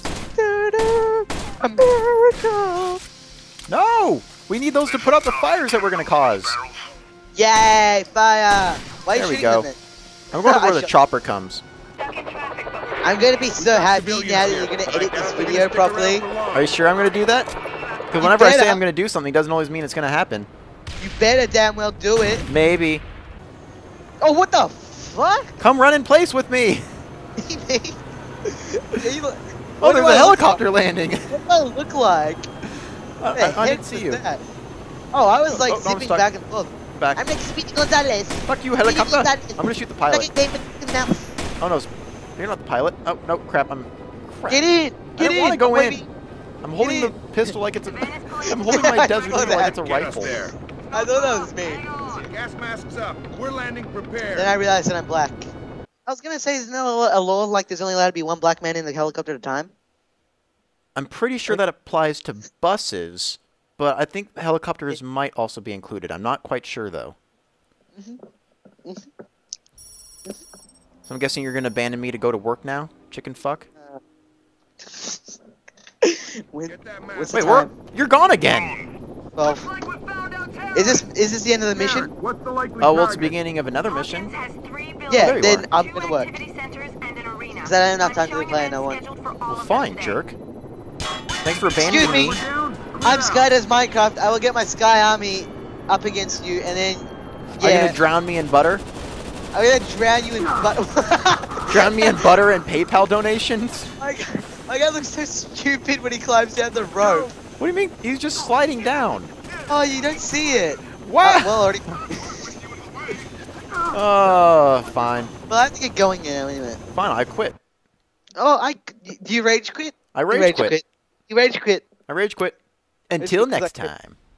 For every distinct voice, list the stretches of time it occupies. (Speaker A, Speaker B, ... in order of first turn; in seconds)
Speaker A: 0.3-3.0, 7.3-9.8, 10.4-10.9, 13.0-16.2, 18.2-18.8, 21.0-22.4, 24.2-25.6, 27.4-30.6, 31.3-32.5, 33.3-34.4, 35.1-41.3, 44.5-46.1, 46.8-47.5, 48.4-49.8, 50.9-52.0, 54.3-55.5, 56.1-59.7, 68.0-68.2, 74.8-75.4, 76.0-77.7, 79.3-79.7, 80.7-82.1, 85.0-86.4, 87.5-89.0, 91.8-92.4, 93.0-98.0, 99.5-102.3, 104.0-107.3, 109.7-112.5, 115.5-116.8, 118.4-121.8, 123.2-123.9
Speaker B: 3.7-6.6, 9.1-9.7, 10.3-11.6, 16.5-17.5, 18.1-20.5, 22.4-23.0, 25.6-26.8, 29.8-31.4, 33.2-34.2, 35.5-36.3, 36.9-37.2, 38.5-40.3, 41.6-46.0, 46.6-50.5, 60.9-67.2, 71.0-73.7, 77.3-78.8, 82.8-84.3, 85.1-85.8, 89.5-90.4, 91.4-92.4, 97.5-98.8, 101.7-103.9, 107.6-109.3, 111.0-112.0, 113.9-115.3, 116.9-117.6, 120.1-120.8, 122.1-122.6, 123.1-124.2
Speaker C: 13.6-16.7, 49.4-50.5, 52.0-54.6, 76.7-77.5, 81.7-83.4, 91.8-93.5